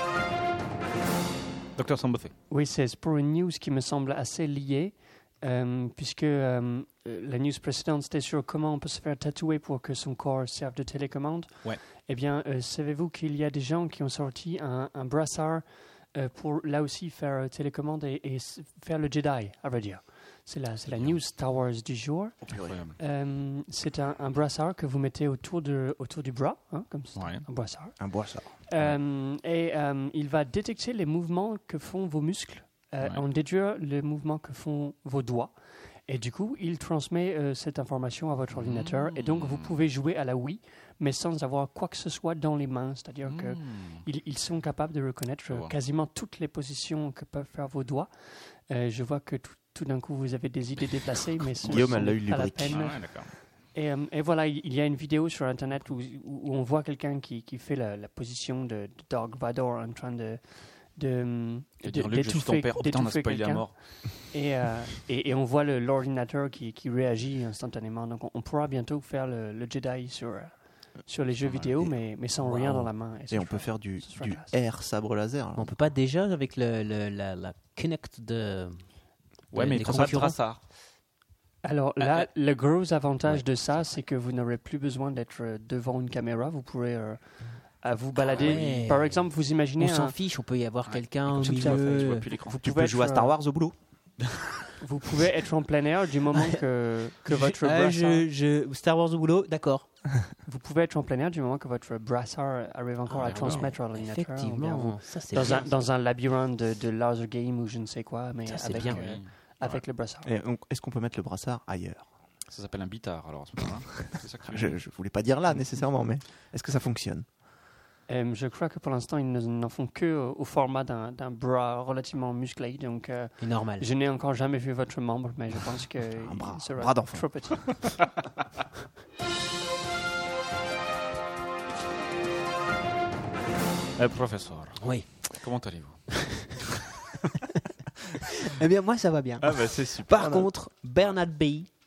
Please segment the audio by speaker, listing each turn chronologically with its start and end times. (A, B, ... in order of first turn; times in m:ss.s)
0:01.8-0:02.3 A
0:02.5-0:22.4 B
0:22.4-0:22.8 C
0:22.5-0:23.0 A
0:23.0-0:28.1 B
0:27.1-0:27.5 A
0:28.0-0:28.9 C
0:28.6-0:35.6 B
0:36.1-0:48.1 B
0:38.5-0:39.8 A
0:43.2-0:44.0 A
0:48.6-1:14.5 B
0:51.6-0:52.9 C
0:51.6-0:51.9 A
0:52.7-0:53.3 A
1:01.8-1:03.8 A
1:11.4-1:11.9 C
1:12.5-1:12.7 D
1:12.6-1:15.7 C
1:15.6-1:18.8 D
1:19.5-1:20.4 D
1:19.5-1:20.6 A
1:21.6-1:27.2 B
1:22.0-1:22.3 A
1:27.8-1:30.1 B
1:28.2-1:32.2 D
1:28.3-1:28.6 A
1:30.9-1:32.6 A
1:31.5-1:33.4 B
1:32.6-1:33.7 C
1:34.8-1:38.2 B
1:37.2-1:39.9 D
1:40.4-1:50.3 B
1:43.1-1:45.7 D
1:43.2-1:43.7 A
1:48.4-1:49.2 D
1:48.8-1:49.8 A
1:50.2-1:52.1 C
1:52.5-1:54.8 A
1:54.5-1:57.2 C
1:58.1-2:08.0 B
2:03.4-2:03.9 D
2:06.2-2:07.5 C
2:14.0-2:16.7 A
2:14.8-2:15.4 D
2:16.1-2:16.5 D
2:18.2-2:21.7 D
2:19.4-2:20.4 A